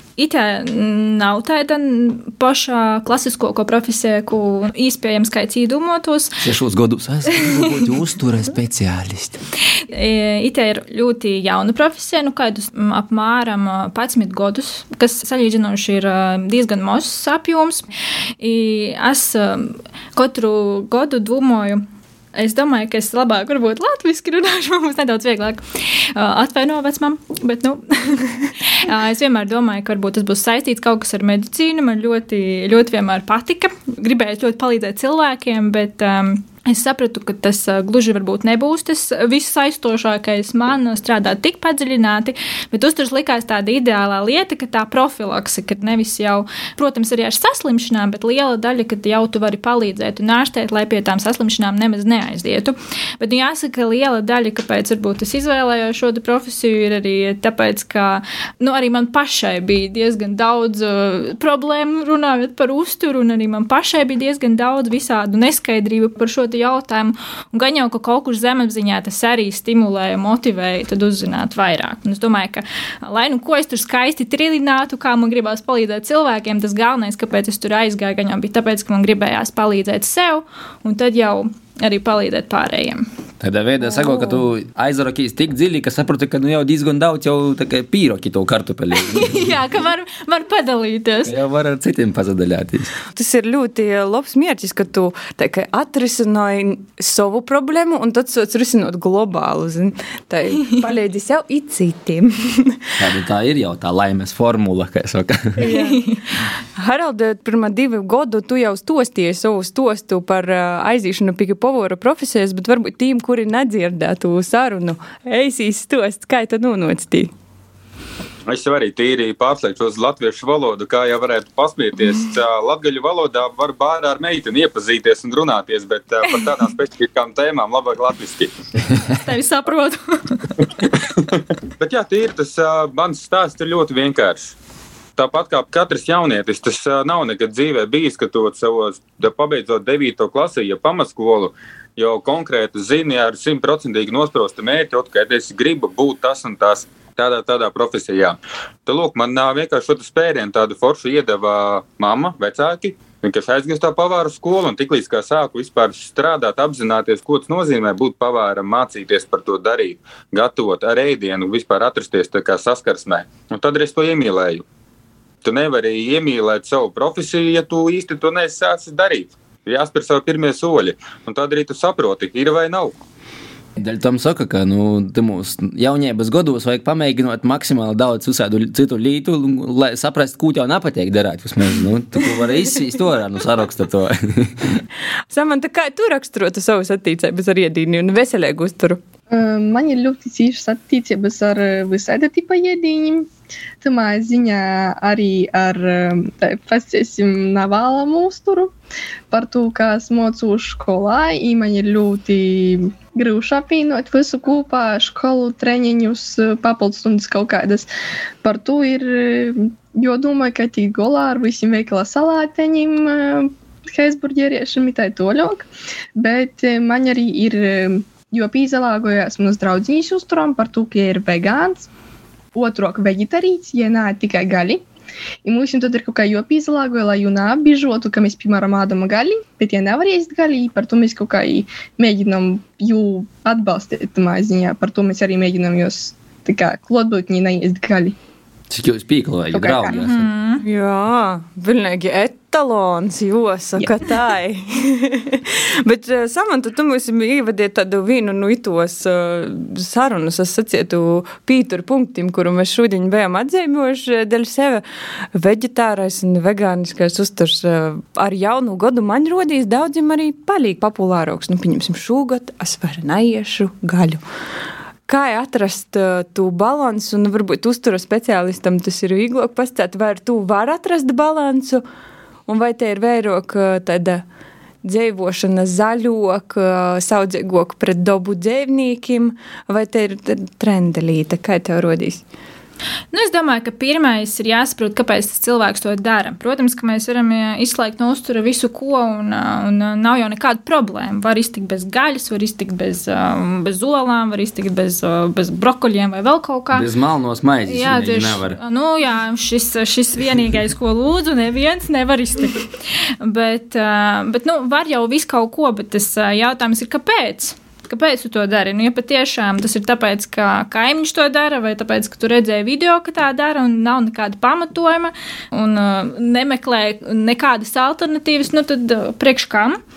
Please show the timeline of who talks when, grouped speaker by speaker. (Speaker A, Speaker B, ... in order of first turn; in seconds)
Speaker A: 0.2-6.4, 9.9-17.9, 18.4-21.8, 22.4-83.1, 89.0-91.3, 105.7-106.2, 129.2-130.7, 239.9-240.7, 283.1-296.9, 297.7-319.8
Speaker B: 6.4-9.4, 83.4-89.5, 91.2-92.9, 103.0-105.7, 173.8-184.8, 238.7-240.3, 296.7-298.6
Speaker C: 93.1-103.0, 105.6-117.3, 185.3-189.0, 240.6-264.2, 265.1-271.8, 272.5-274.2, 274.8-282.2
Speaker D: 118.5-128.5, 131.2-134.6, 135.2-164.6, 165.4-172.9
Speaker E: 189.3-193.3, 193.8-198.7, 199.3-207.9, 208.4-221.9, 222.6-224.8, 225.4-238.2, 239.5-240.0